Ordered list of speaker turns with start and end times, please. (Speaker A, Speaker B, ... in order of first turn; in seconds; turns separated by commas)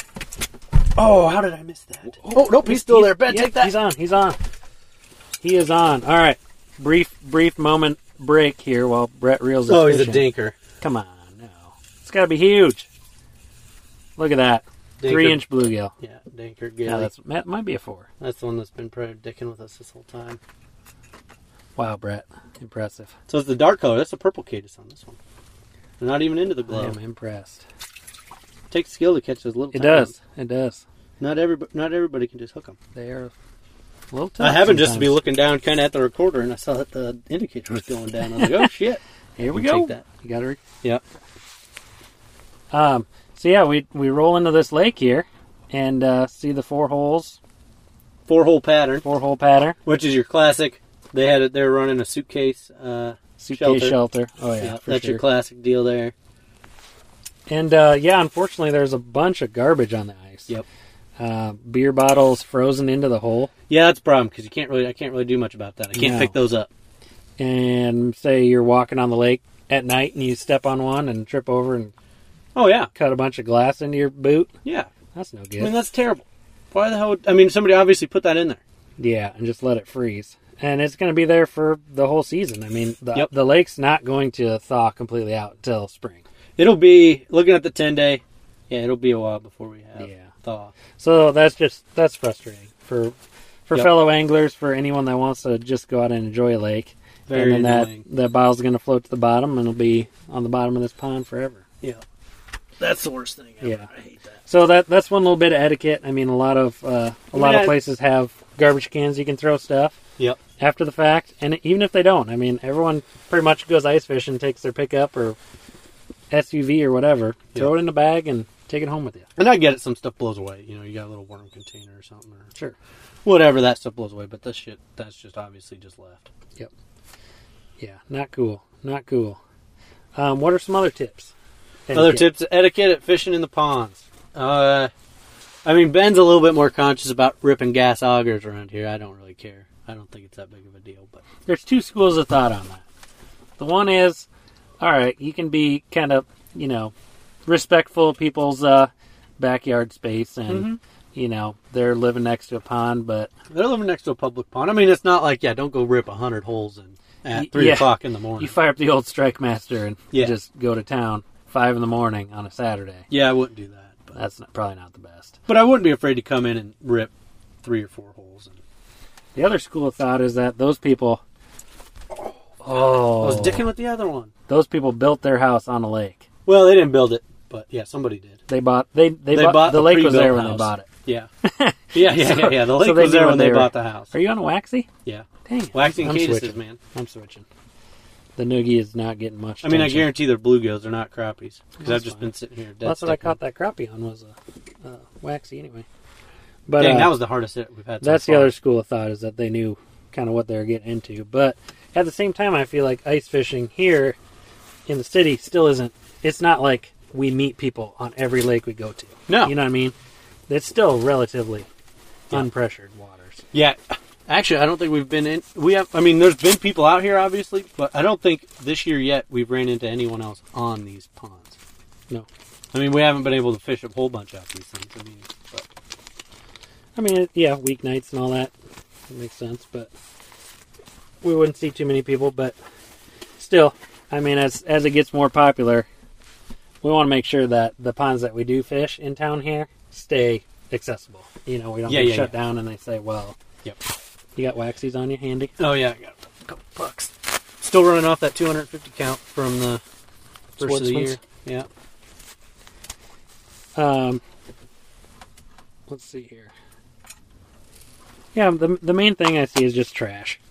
Speaker A: 1.0-3.7, Speaker B: 2.2-4.4, Speaker B: 5.4-10.2, Speaker A: 9.7-10.6, Speaker B: 10.8-12.9, Speaker B: 14.2-15.9, Speaker A: 15.0-15.4, Speaker A: 16.0-17.1, Speaker B: 16.9-18.1, Speaker A: 18.2-20.4, Speaker B: 21.8-23.1, Speaker A: 23.3-25.2, Speaker A: 26.0-27.0, Speaker B: 26.7-27.6, Speaker A: 28.7-30.1, Speaker B: 29.7-30.8, Speaker A: 31.2-32.8, Speaker B: 33.0-33.3, Speaker B: 34.1-35.1, Speaker A: 34.4-40.0, Speaker B: 38.4-38.7, Speaker B: 39.4-40.6, Speaker B: 42.7-47.4, Speaker A: 48.3-49.0, Speaker B: 49.0-49.8, Speaker A: 49.9-54.0, Speaker B: 53.4-55.2, Speaker A: 54.6-56.1, Speaker B: 57.5-60.5, Speaker B: 61.2-63.5, Speaker A: 63.7-66.7, Speaker B: 66.0-66.3, Speaker B: 67.4-71.9, Speaker A: 72.5-72.9, Speaker B: 73.0-74.5, Speaker A: 74.7-74.9, Speaker B: 75.2-75.8, Speaker A: 75.6-78.6, Speaker B: 79.0-86.2, Speaker A: 86.6-90.7, Speaker B: 90.0-90.3, Speaker B: 91.0-93.2, Speaker B: 93.7-101.7, Speaker A: 97.3-98.0, Speaker A: 102.8-104.3, Speaker B: 103.6-103.9, Speaker B: 104.5-110.0, Speaker A: 107.3-107.8, Speaker B: 110.6-115.4, Speaker B: 116.3-119.3, Speaker A: 119.4-122.5, Speaker A: 123.2-126.3, Speaker B: 127.8-129.4, Speaker B: 130.2-131.3, Speaker B: 131.9-132.3, Speaker A: 131.9-134.9, Speaker A: 135.7-141.2, Speaker B: 141.5-142.8, Speaker B: 143.6-144.3, Speaker B: 144.8-146.9, Speaker B: 147.5-153.3, Speaker A: 150.5-150.8, Speaker A: 153.5-158.5, Speaker B: 157.3-163.1, Speaker A: 163.1-164.2, Speaker B: 164.2-165.4, Speaker A: 165.5-168.6, Speaker B: 169.3-171.2, Speaker B: 172.6-173.7, Speaker A: 173.1-174.3, Speaker B: 174.5-176.3, Speaker A: 176.5-178.4, Speaker B: 178.5-180.9, Speaker A: 179.3-181.3, Speaker B: 181.4-184.9, Speaker A: 181.9-184.1, Speaker A: 185.1-186.8, Speaker B: 185.4-187.4, Speaker B: 188.4-190.1, Speaker A: 189.6-193.4, Speaker B: 191.8-192.3, Speaker B: 192.8-195.9, Speaker B: 196.7-197.2, Speaker A: 196.8-198.5, Speaker B: 198.0-204.2, Speaker B: 204.9-209.9, Speaker A: 209.3-209.6, Speaker B: 210.5-211.7, Speaker B: 212.3-213.4, Speaker A: 213.5-221.6, Speaker A: 222.7-225.7, Speaker B: 227.0-228.5, Speaker B: 229.1-229.9, Speaker B: 231.2-232.6, Speaker B: 233.4-235.9, Speaker B: 236.8-243.4, Speaker A: 241.9-242.3, Speaker B: 244.4-245.5, Speaker A: 245.6-249.8, Speaker B: 250.6-251.2, Speaker A: 250.6-251.7, Speaker B: 253.8-254.2, Speaker B: 255.9-256.5, Speaker B: 258.3-260.4